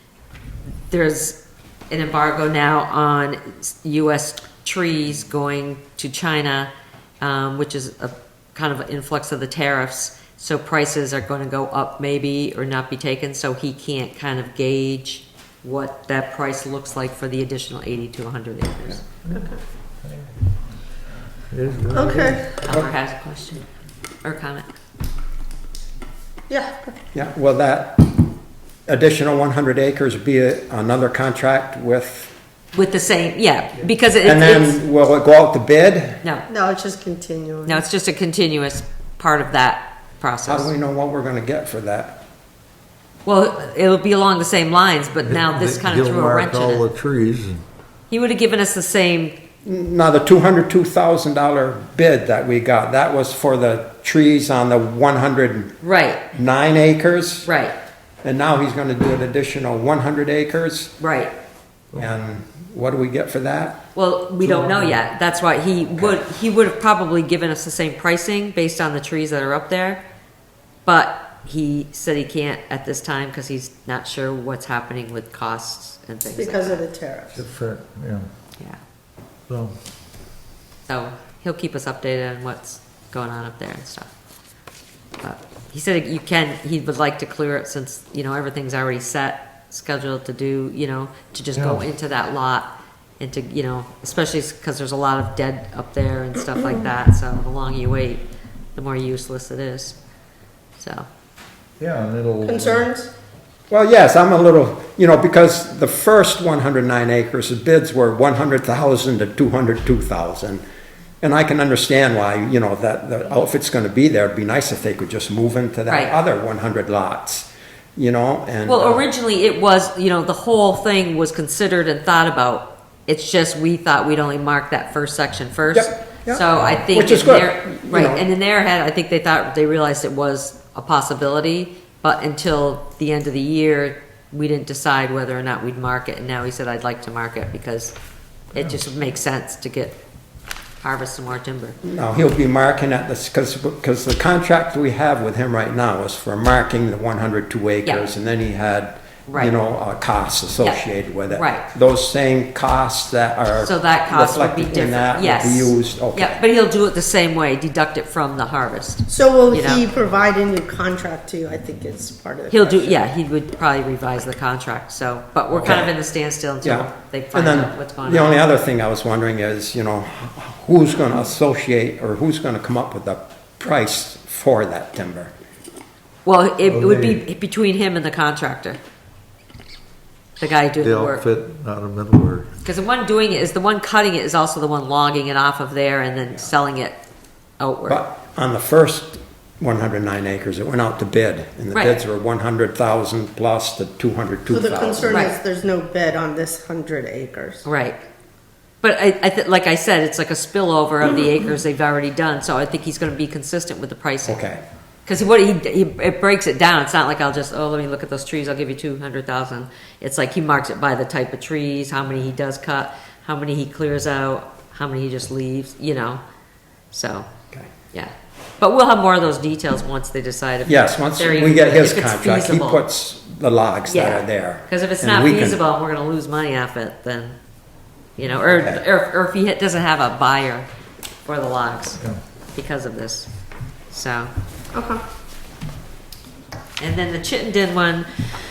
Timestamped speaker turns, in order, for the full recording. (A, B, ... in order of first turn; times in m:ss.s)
0:00.9-0:19.0 A
0:19.3-0:19.6 B
0:20.0-0:20.3 C
0:21.5-0:22.5 C
0:21.9-0:22.5 B
0:22.6-0:23.6 A
0:24.2-0:24.7 A
0:26.5-0:27.0 B
0:27.1-0:28.2 D
0:28.9-0:32.3 D
0:32.7-0:34.8 A
0:33.8-0:36.2 D
0:36.5-0:37.8 B
0:37.7-0:40.7 A
0:40.4-0:42.2 D
0:43.2-0:46.9 A
0:45.2-0:47.6 C
0:48.1-0:49.4 A
0:49.6-0:55.8 D
0:55.8-0:56.2 A
0:56.3-0:57.5 D
0:57.4-0:57.8 A
0:58.2-1:01.0 D
1:01.0-1:01.3 A
1:01.9-1:03.8 D
1:03.9-1:10.0 A
1:04.4-1:04.9 C
1:10.8-1:16.8 A
1:16.4-1:17.4 B
1:17.3-1:18.3 C
1:19.5-1:19.8 C
1:20.9-1:24.1 A
1:25.2-1:38.2 A
1:31.5-1:31.8 C
1:38.7-1:40.0 A
1:40.8-1:41.1 A
1:41.8-1:42.9 C
1:42.4-1:43.1 B
1:43.7-1:50.6 D
1:51.2-1:59.0 D
1:55.9-1:56.1 A
1:58.6-2:18.0 A
2:05.7-2:08.2 D
2:18.5-2:20.0 A
2:18.5-2:18.8 C
2:20.8-2:21.8 A
2:21.8-2:36.4 D
2:29.3-2:29.5 A
2:30.6-2:31.7 A
2:33.6-2:39.9 A
2:39.1-2:43.1 B
2:42.5-2:48.4 A
2:45.5-2:45.9 D
2:46.6-2:55.3 D
2:56.2-2:58.8 A
2:56.6-2:57.2 C
3:00.4-3:01.2 A
3:00.8-3:02.5 C
3:02.6-3:07.0 A
3:07.6-3:08.0 A
3:07.9-3:15.3 D
3:11.7-3:12.0 A
3:14.5-3:17.6 B
3:15.0-3:15.3 A
3:17.6-3:18.0 A
3:18.8-3:24.4 A
3:24.2-3:24.6 D
3:25.0-3:36.2 A
3:36.9-3:37.3 A
3:37.9-3:42.8 A
3:40.6-3:45.6 D
3:43.9-3:47.4 A
3:48.2-3:50.7 A
3:48.4-3:48.8 D
3:51.2-3:53.3 A
3:53.9-3:54.3 A
3:54.7-3:55.0 B
3:56.8-3:58.2 A